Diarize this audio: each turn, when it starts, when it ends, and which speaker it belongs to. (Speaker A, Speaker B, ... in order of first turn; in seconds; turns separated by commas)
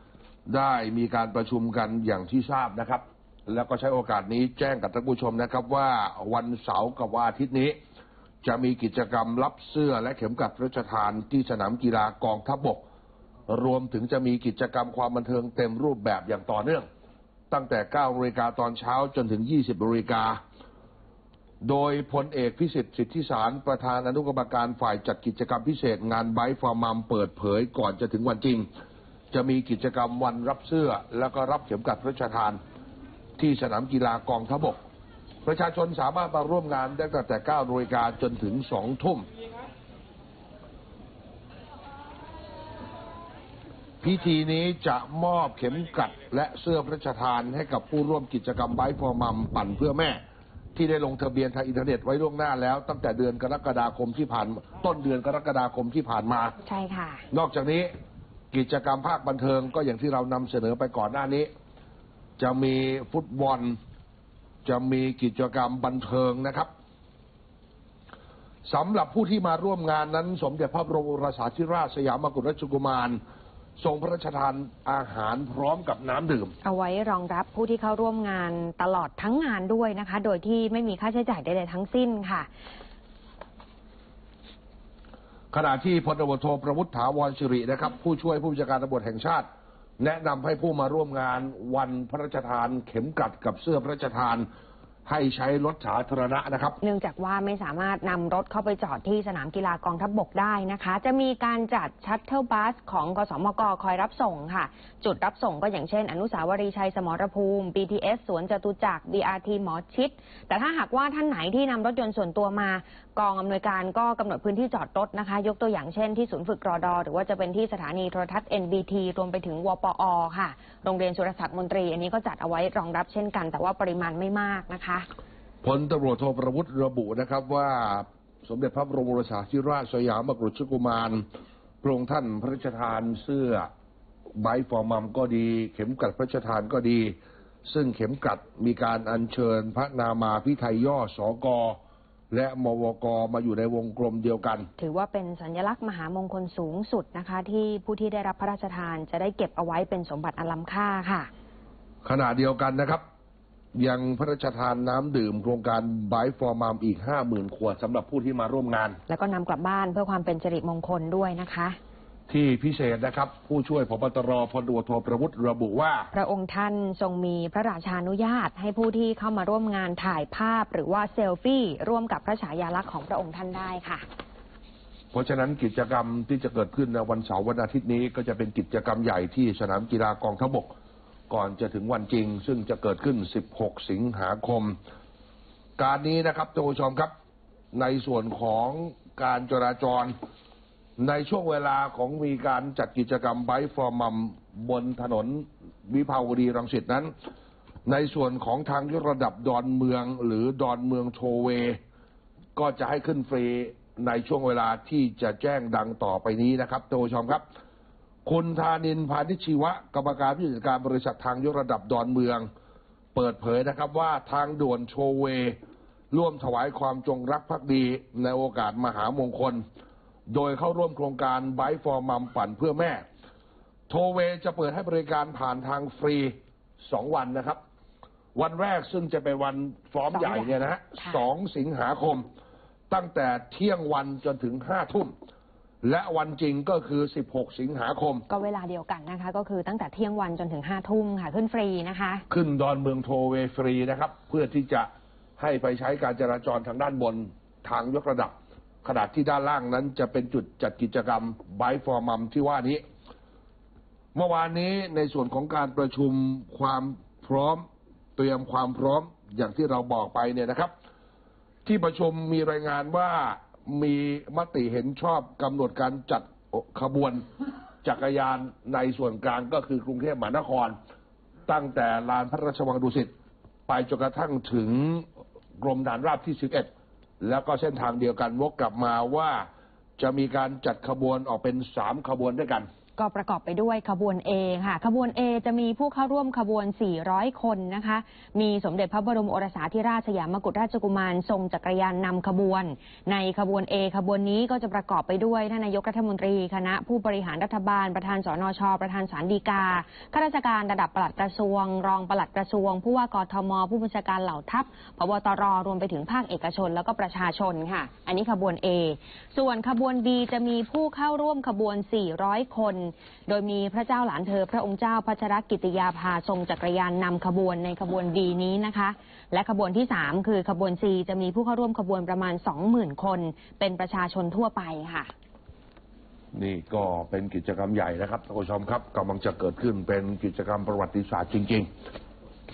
Speaker A: 0.5-7.8, Speaker A: 8.4-12.8, Speaker A: 13.5-16.9, Speaker A: 17.5-20.4, Speaker A: 21.6-28.7, Speaker A: 29.3-32.6, Speaker A: 33.4-34.8, Speaker A: 35.5-39.3, Speaker A: 44.0-50.2, Speaker A: 50.8-56.6, Speaker B: 56.6-57.2, Speaker A: 57.3-57.9, Speaker A: 58.5-61.5, Speaker A: 62.4-63.8, Speaker A: 64.7-66.7, Speaker A: 68.7-73.2, Speaker A: 73.8-76.5, Speaker B: 76.6-82.5, Speaker A: 85.5-89.5, Speaker A: 90.0-94.5, Speaker A: 95.1-96.8, Speaker B: 96.8-125.1, Speaker A: 125.6-131.2, Speaker A: 131.8-133.7, Speaker A: 134.4-141.8, Speaker A: 142.3-144.7, Speaker B: 144.8-151.3, Speaker A: 152.1-153.0, Speaker A: 153.8-159.0, Speaker B: 159.1-161.8, Speaker A: 162.3-166.1, Speaker B: 166.1-174.0, Speaker A: 175.1-180.7, Speaker A: 181.3-184.8, Speaker A: 185.8-187.1, Speaker A: 187.7-190.1, Speaker A: 191.0-197.1, Speaker A: 197.9-201.8, Speaker A: 202.6-207.4, Speaker A: 208.2-212.5, Speaker A: 213.1-215.6, Speaker A: 216.1-219.6, Speaker A: 220.3-223.0, Speaker A: 223.9-227.6, Speaker A: 228.3-232.3, Speaker B: 230.1-231.2, Speaker A: 232.9-235.1, Speaker A: 235.8-238.2, Speaker B: 238.3-242.2, Speaker A: 242.3-248.3, Speaker A: 248.8-252.8, Speaker A: 254.2-257.7, Speaker A: 258.2-260.7, Speaker A: 261.6-267.3, Speaker A: 267.8-270.8, Speaker A: 271.5-273.1, Speaker A: 273.7-275.1, Speaker A: 275.6-276.7, Speaker A: 277.2-279.5, Speaker A: 280.0-282.7, Speaker B: 283.0-325.1, Speaker A: 326.3-331.7